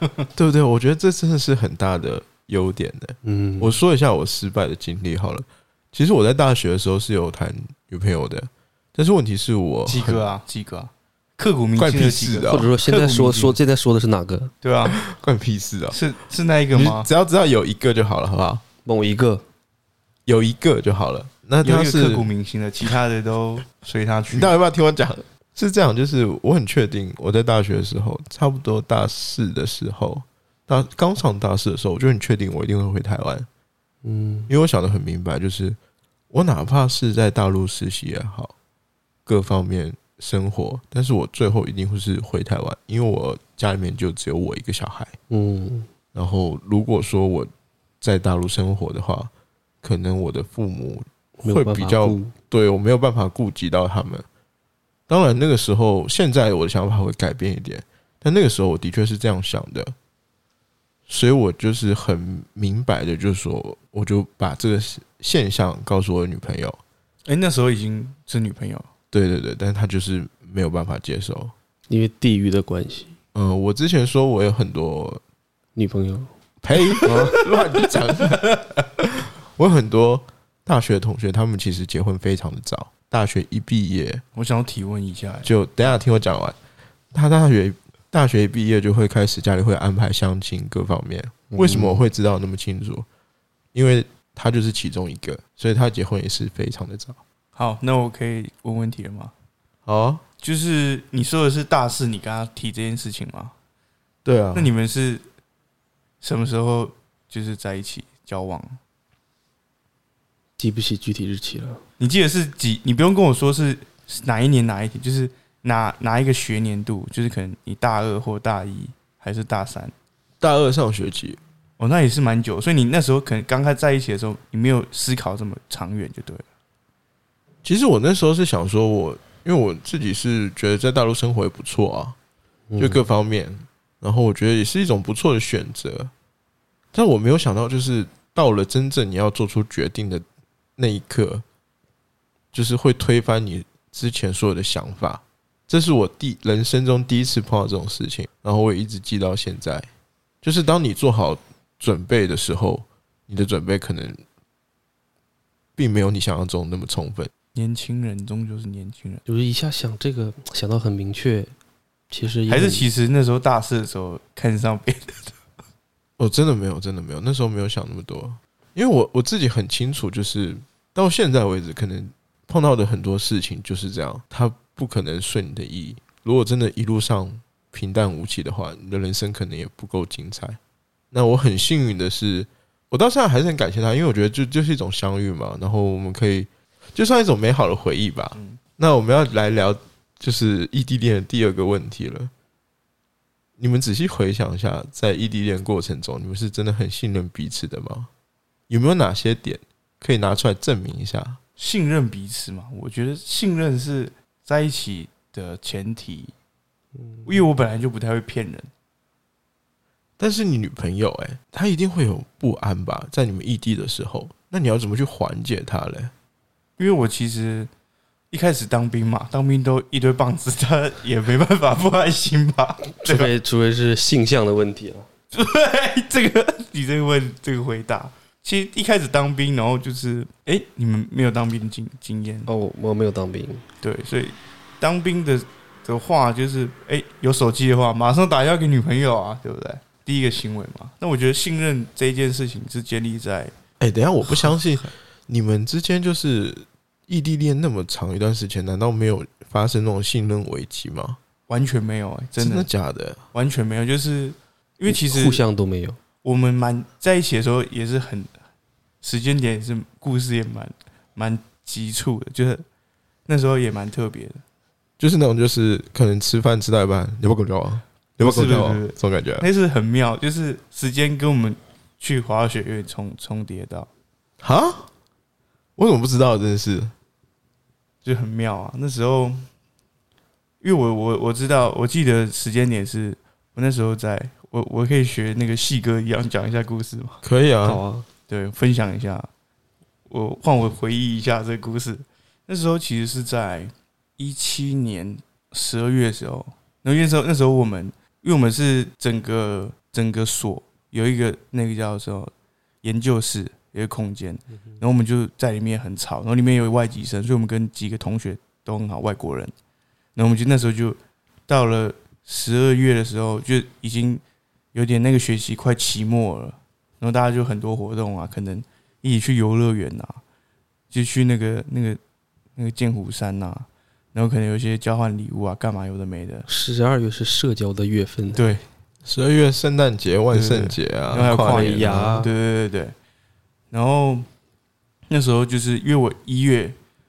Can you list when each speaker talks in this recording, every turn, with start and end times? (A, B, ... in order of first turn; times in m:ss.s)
0:00.4-0:10.3 A
0:03.2-0:03.8 B
0:09.9-0:13.6 C
0:11.8-0:12.7 A
0:12.5-0:14.5 B
0:14.6-0:15.0 C
0:14.9-0:16.0 A
0:15.9-0:17.1 C
0:16.7-0:18.6 A
0:18.9-0:19.4 B
0:20.3-0:22.3 A
0:21.6-0:24.5 C
0:24.3-0:33.5 A
0:34.0-0:34.5 B
0:34.5-0:35.8 A
0:36.3-0:38.5 A
0:39.3-0:45.2 A
0:45.3-0:45.9 B
0:46.1-0:47.5 A
0:48.0-0:49.3 A
0:49.8-0:54.2 A
0:51.4-0:52.3 B
0:55.1-0:59.9 A
1:01.1-1:06.8 A
1:07.3-1:08.9 C
1:09.1-1:11.5 A
1:11.9-1:13.1 B
1:13.3-1:15.2 A
1:15.8-1:16.3 B
1:16.6-1:24.2 A
1:16.9-1:18.6 C
1:17.0-1:17.4 B
1:24.4-1:25.5 C
1:25.4-1:26.6 A
1:27.1-1:33.1 A
1:31.5-1:32.1 B
1:33.7-1:37.2 A
1:37.6-1:39.3 C
1:39.9-1:40.2 A
1:40.4-1:43.5 C
1:44.2-1:44.7 A
1:44.6-1:45.2 C
1:46.2-1:48.8 C
1:50.6-1:51.8 B
1:52.0-1:59.9 C
2:00.4-2:01.4 A
2:01.8-2:06.4 C
2:07.6-2:12.2 A
2:12.7-2:13.0 B
2:12.8-2:16.1 A
2:16.9-2:20.2 A
2:20.8-2:21.4 A
2:22.5-2:29.9 A
2:30.4-2:34.2 A
2:35.8-2:37.3 A
2:37.6-2:39.2 C
2:39.3-2:41.5 B
2:42.1-2:42.9 B
2:42.5-2:45.3 C
2:46.2-3:00.6 A
3:01.1-3:12.3 A
3:13.6-3:18.1 A
3:18.7-3:21.4 A
3:21.6-3:26.3 C
3:27.0-3:27.3 B
3:27.3-3:28.7 C
3:30.2-3:36.1 A
3:36.8-3:37.7 C
3:38.3-3:43.3 C
3:43.0-3:45.1 B
3:45.3-3:52.5 C
3:52.5-3:53.6 B
3:53.8-4:03.5 C
4:03.8-4:11.2 A
4:11.5-4:12.7 C
4:12.4-4:13.2 A
4:13.3-4:15.4 C
4:14.9-4:16.0 B
4:16.2-4:18.3 C
4:19.0-4:22.6 C
4:23.3-4:24.4 C
4:25.0-4:29.5 A
4:28.2-4:33.9 C
4:34.4-4:34.9 A
4:35.8-4:36.9 A
4:38.0-4:39.5 C
4:40.6-4:47.2 C
4:47.2-4:47.8 A
4:47.6-4:48.1 B
4:48.3-4:49.3 C
4:50.1-5:02.3 C
5:02.8-5:09.5 C
5:10.2-5:11.0 C
5:11.5-5:14.2 C
5:14.7-5:20.2 C
5:20.9-5:22.0 C
5:22.6-5:26.5 C
5:26.5-5:28.4 B
5:28.3-5:28.6 C
5:29.1-5:32.2 A
5:30.3-5:32.9 C
5:31.4-5:32.3 B
5:33.7-5:34.3 C
5:35.1-5:36.8 C